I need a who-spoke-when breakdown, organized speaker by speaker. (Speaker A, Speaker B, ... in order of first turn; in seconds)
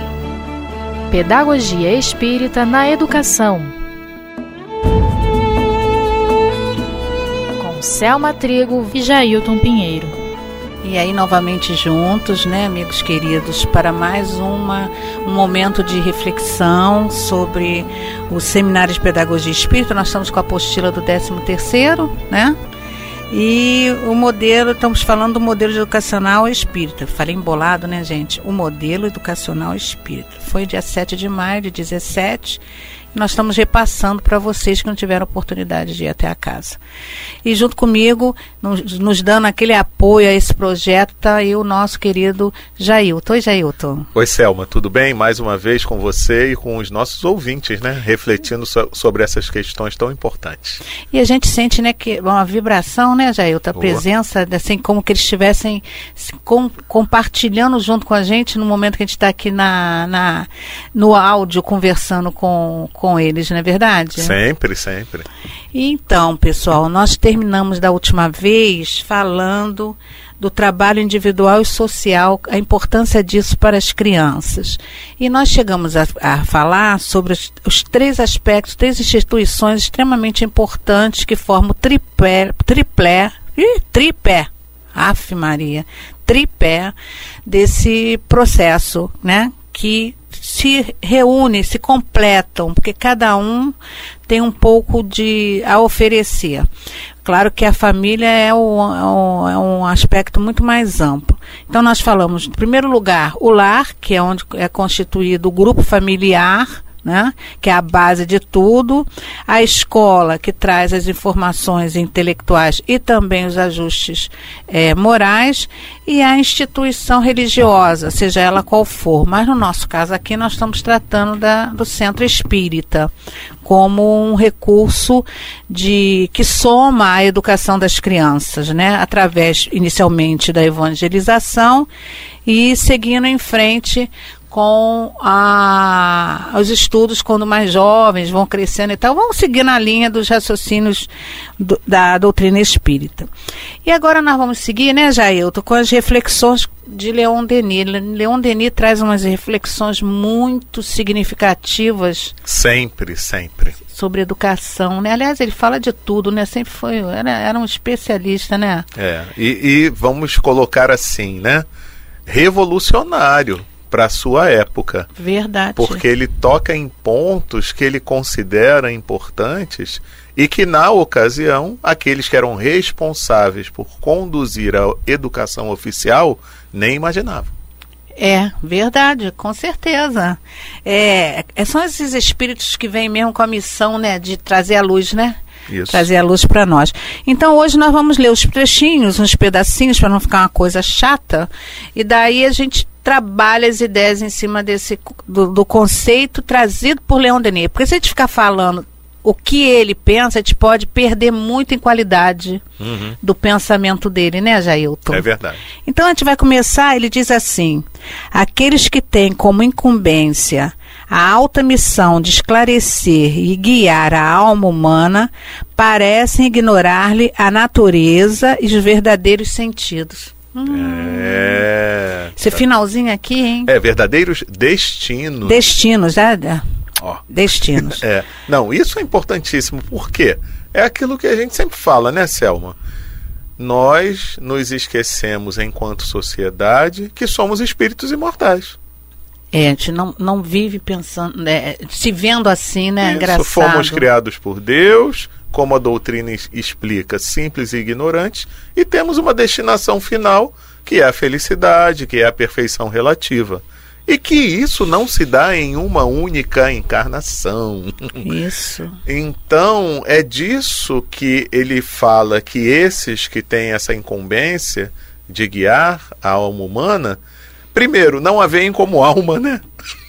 Speaker A: 1.1-3.7, 7.6-10.2
Speaker B: 10.8-22.6, 23.3-32.6, 33.1-36.8, 37.4-44.1, 51.1-64.3, 65.7-86.9, 87.5-93.8, 94.3-96.7, 97.2-123.1, 123.6-131.9, 132.4-143.3, 143.8-152.3, 153.9-158.9, 165.2-166.0, 178.2-185.4, 185.9-202.6, 203.2-205.2, 205.8-221.6, 222.4-223.7, 225.4-226.6, 227.3-228.0, 239.5-244.0, 258.2-259.0
Speaker C: 44.1-50.8, 53.7-54.0, 64.2-65.2, 152.4-153.8, 158.9-161.6, 162.3-165.1, 165.8-177.5, 185.7-186.1, 202.8-203.2, 205.1-205.6, 220.7-222.6, 223.6-225.6, 227.8-232.8, 233.6-238.8, 243.0-258.2, 259.1-267.2, 267.7-269.7